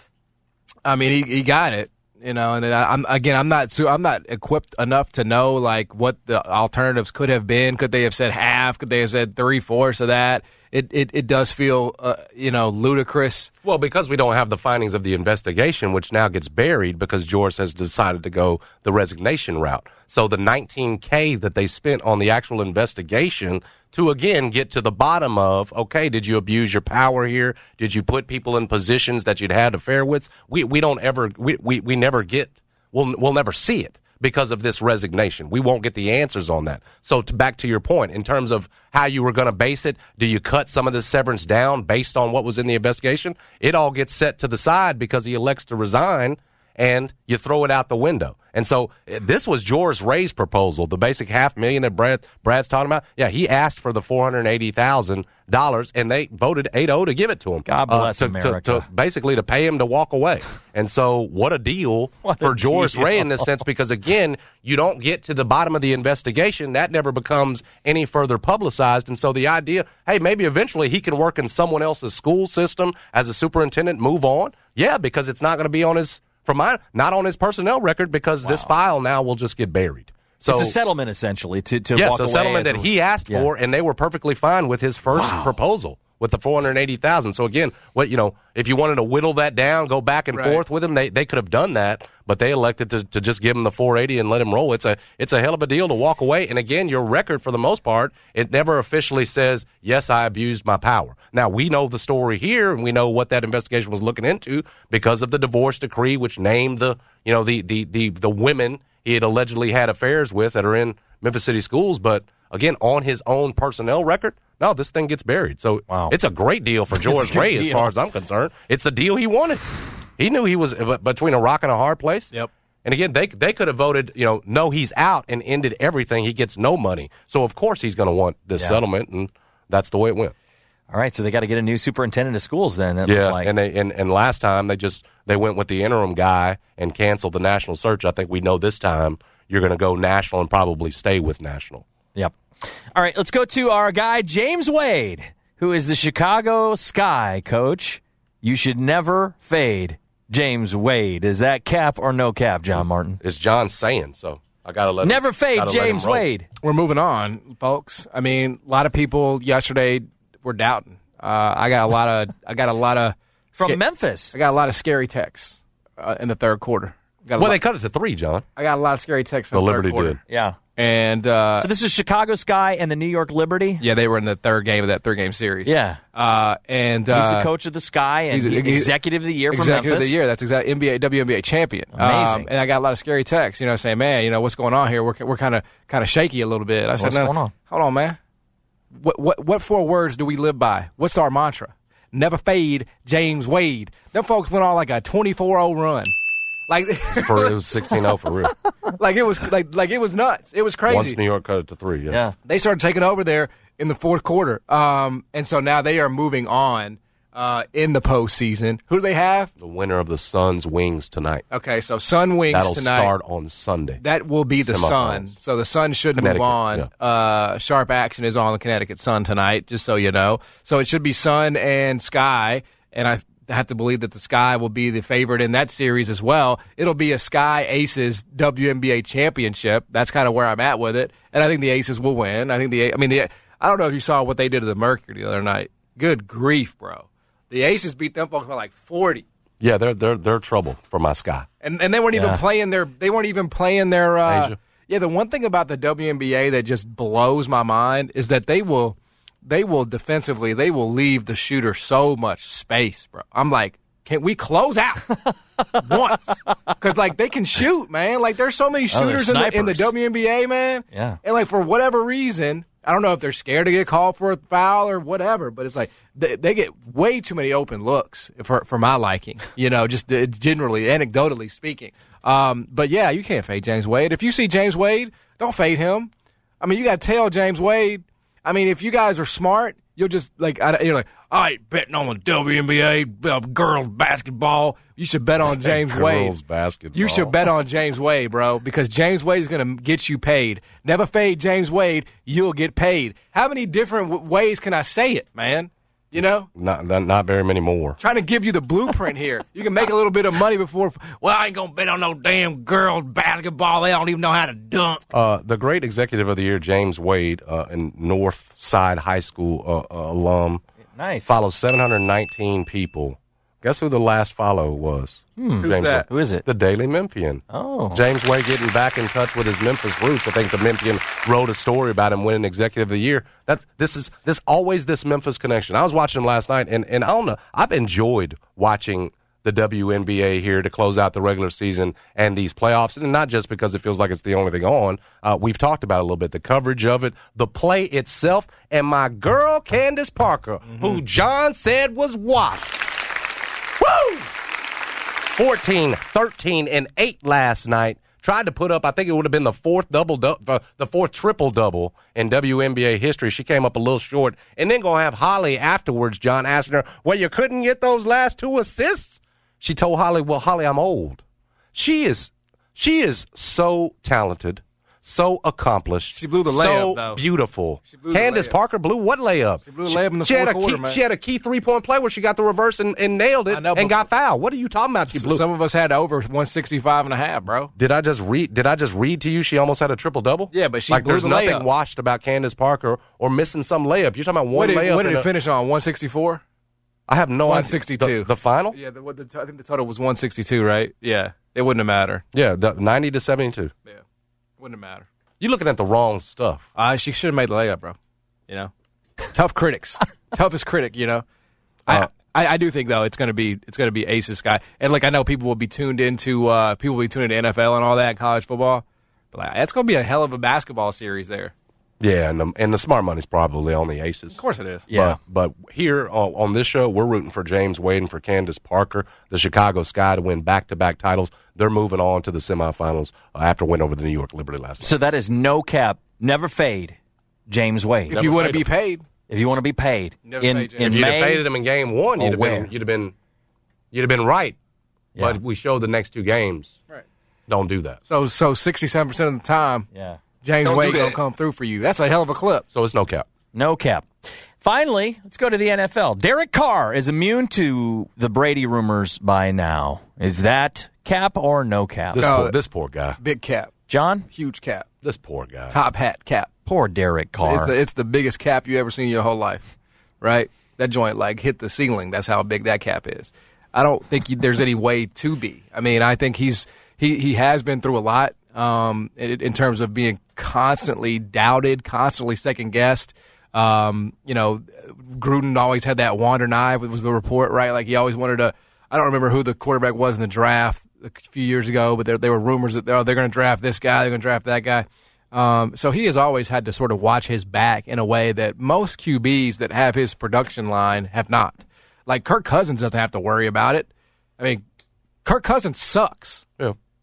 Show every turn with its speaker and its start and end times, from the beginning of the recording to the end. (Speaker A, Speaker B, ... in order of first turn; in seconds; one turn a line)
Speaker A: 0.9-13.5
Speaker B: 13.6-80.7
Speaker C: 57.7-58.9
Speaker C: 62.2-63.5
Speaker C: 78.4-78.7
Speaker C: 80.5-83.5
Speaker B: 82.0-119.7
Speaker C: 85.1-85.5
Speaker A: 90.3-90.6
Speaker C: 115.9-116.1
Speaker C: 116.9-117.9
Speaker B: 120.2-122.3
Speaker B: 122.8-130.3
Speaker C: 130.9-133.5
Speaker B: 133.1-141.8
Speaker C: 142.2-153.2
Speaker B: 153.2-156.2
Speaker C: 155.0-156.5
Speaker A: 156.6-163.8
Speaker C: 163.6-164.4
Speaker A: 164.3-167.6
Speaker B: 167.4-168.4
Speaker A: 168.6-170.2
Speaker B: 169.5-170.2
Speaker C: 170.3-170.6
Speaker A: 170.8-171.7
Speaker C: 171.6-173.8
Speaker A: 173.8-177.5
Speaker C: 175.7-176.0
Speaker C: 177.1-180.2
Speaker A: 178.3-178.9
Speaker A: 179.5-188.2
Speaker C: 181.9-182.5
Speaker C: 187.0-187.5
Speaker A: 188.9-196.1
Speaker A: 196.7-198.0
Speaker B: 197.2-198.6
Speaker A: 199.0-201.2
Speaker B: 200.9-202.2
Speaker A: 202.4-209.5
Speaker B: 209.6-211.4
Speaker A: 211.5-213.1
Speaker B: 212.5-214.0
Speaker A: 214.0-239.2
Speaker B: 214.7-215.3
Speaker B: 216.2-216.9
Speaker B: 239.6-241.5
Speaker A: 241.6-255.2
Speaker C: 242.1-242.4
Speaker B: 244.3-244.6
Speaker C: 255.2-256.7
Speaker A: 255.8-276.1
Speaker C: 258.9-259.9
Speaker C: 260.9-261.2
Speaker A: 276.6-286.4
Speaker B: 285.4-287.3
Speaker A: 286.9-296.5
Speaker B: 296.6-298.0
Speaker A: 298.0-305.1
Speaker B: 305.1-310.6
Speaker C: 311.0-311.3
Speaker B: 311.3-342.9
Speaker C: 315.4-316.4
Speaker A: 315.6-316.1
Speaker C: 317.5-318.0
Speaker A: 340.7-341.0
Speaker B: 343.8-344.3
Speaker B: 345.4-361.2
Speaker B: 361.7-375.4
Speaker A: 366.1-367.2
Speaker A: 367.9-368.6
Speaker A: 369.7-371.0
Speaker A: 373.5-374.0
Speaker A: 375.1-377.7
Speaker B: 377.8-385.3
Speaker A: 380.5-381.6
Speaker A: 384.5-386.4
Speaker B: 387.1-388.8
Speaker A: 387.5-392.2
Speaker B: 392.3-393.7
Speaker A: 394.6-395.1
Speaker B: 395.4-396.6
Speaker A: 396.8-398.0
Speaker A: 399.3-401.2
Speaker A: 401.9-411.5
Speaker B: 412.0-414.4
Speaker A: 414.4-414.9
Speaker C: 414.9-415.2
Speaker B: 414.9-424.9
Speaker C: 424.8-427.0
Speaker C: 427.5-428.2
Speaker B: 428.1-428.7
Speaker A: 428.1-429.0
Speaker C: 429.3-431.5
Speaker A: 430.3-431.0
Speaker B: 430.8-433.1
Speaker C: 432.2-432.7
Speaker B: 433.9-434.6
Speaker B: 435.2-436.8
Speaker B: 437.5-438.0
Speaker A: 438.1-439.9
Speaker C: 439.9-440.2
Speaker A: 440.4-442.7
Speaker C: 440.8-441.1
Speaker B: 442.7-443.3
Speaker C: 443.5-452.3
Speaker B: 452.1-453.2
Speaker A: 452.2-452.6
Speaker A: 453.2-453.7
Speaker C: 453.9-454.3
Speaker A: 454.3-454.9
Speaker B: 455.0-455.7
Speaker A: 455.7-456.5
Speaker C: 456.7-457.7
Speaker A: 457.4-494.6
Speaker A: 495.2-496.5